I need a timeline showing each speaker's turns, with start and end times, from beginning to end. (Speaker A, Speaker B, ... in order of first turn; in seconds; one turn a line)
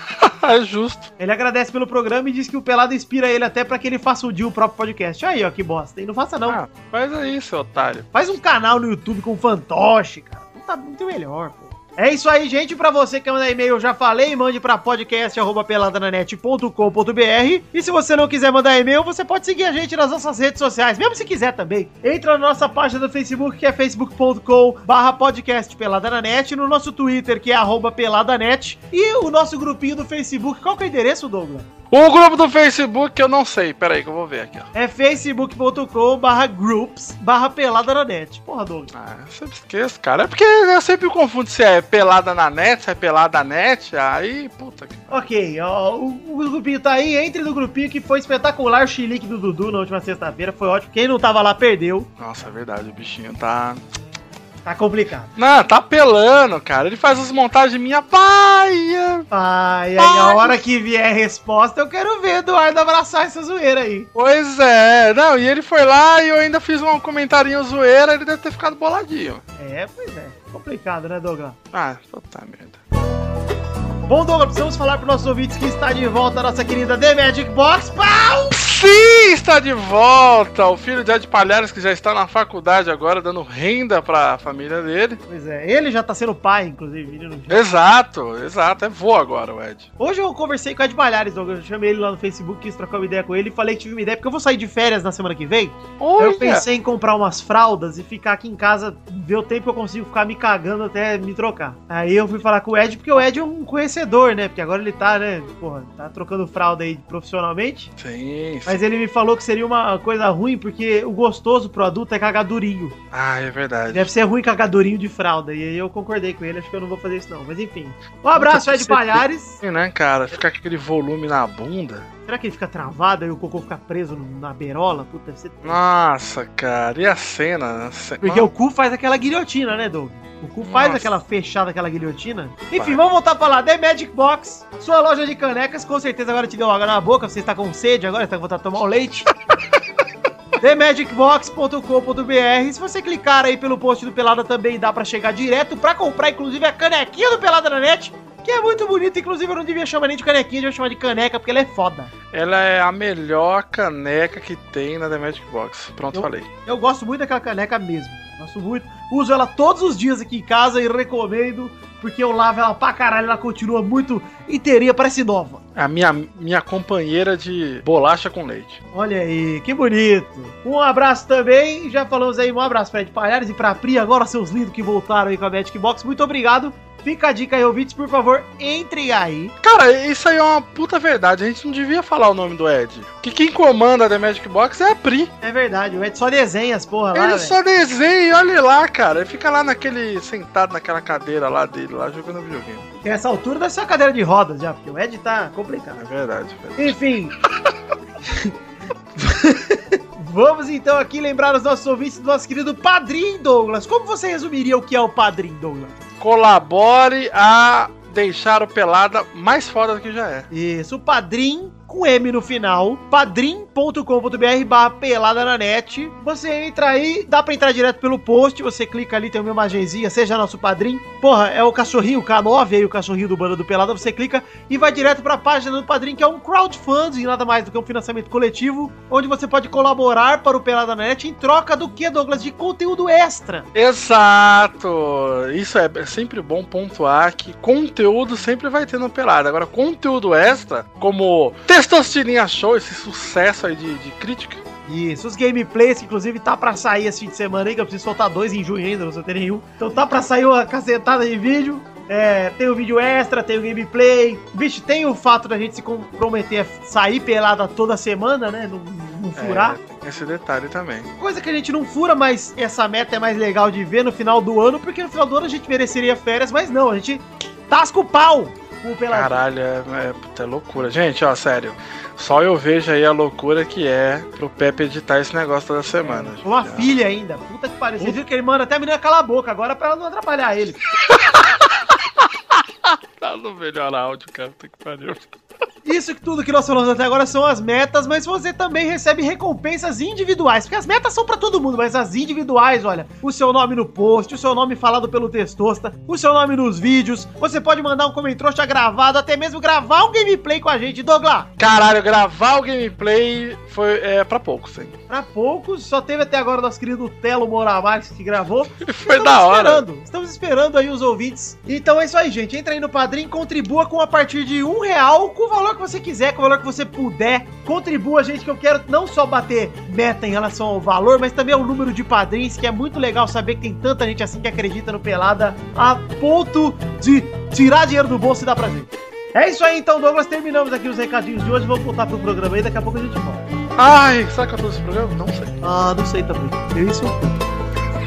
Speaker A: 0.2-1.1
Speaker B: 1.2-6.6
Speaker A: 6.5-8.1
Speaker B: 8.1-31.7
Speaker A: 31.9-34.7
Speaker B: 34.7-38.9
Speaker A: 38.9-45.2
Speaker B: 45.1-52.1
Speaker A: 52.2-53.8
Speaker B: 54.6-55.3
Speaker A: 55.4-59.2
Speaker B: 59.3-64.1
Speaker A: 60.0-60.6
Speaker A: 64.1-69.4
Speaker B: 69.6-71.6
Speaker A: 71.7-72.8
Speaker B: 74.0-78.5
Speaker A: 78.5-85.2
Speaker B: 85.3-87.6
Speaker A: 87.5-89.9
Speaker B: 90.0-107.9
Speaker A: 96.0-96.7
Speaker A: 108.0-108.8
Speaker B: 108.7-113.0
Speaker A: 113.1-114.1
Speaker B: 113.9-119.6
Speaker A: 118.3-122.1
Speaker B: 122.3-125.8
Speaker A: 125.6-128.5
Speaker B: 128.2-139.3
Speaker A: 130.6-131.1
Speaker B: 140.6-152.1
Speaker A: 152.3-156.5
Speaker B: 156.1-165.6
Speaker A: 165.8-168.8
Speaker B: 168.9-179.5
Speaker A: 179.6-185.3
Speaker B: 185.4-187.6
Speaker A: 187.1-192.8
Speaker B: 193.0-196.0
Speaker A: 195.9-196.9
Speaker B: 196.8-197.3
Speaker B: 198.2-198.5
Speaker B: 199.2-206.0
Speaker A: 206.2-210.5
Speaker B: 210.5-233.7
Speaker A: 233.7-244.6
Speaker B: 244.9-259.8
Speaker A: 259.4-261.1
Speaker B: 261.2-269.4
Speaker A: 269.1-276.9
Speaker B: 276.0-280.8
Speaker A: 281.1-281.7
Speaker A: 283.2-285.3
Speaker B: 285.8-301.5
Speaker A: 301.6-304.9
Speaker B: 305.1-333.4
Speaker A: 308.8-309.8
Speaker A: 333.8-335.6
Speaker B: 335.6-337.4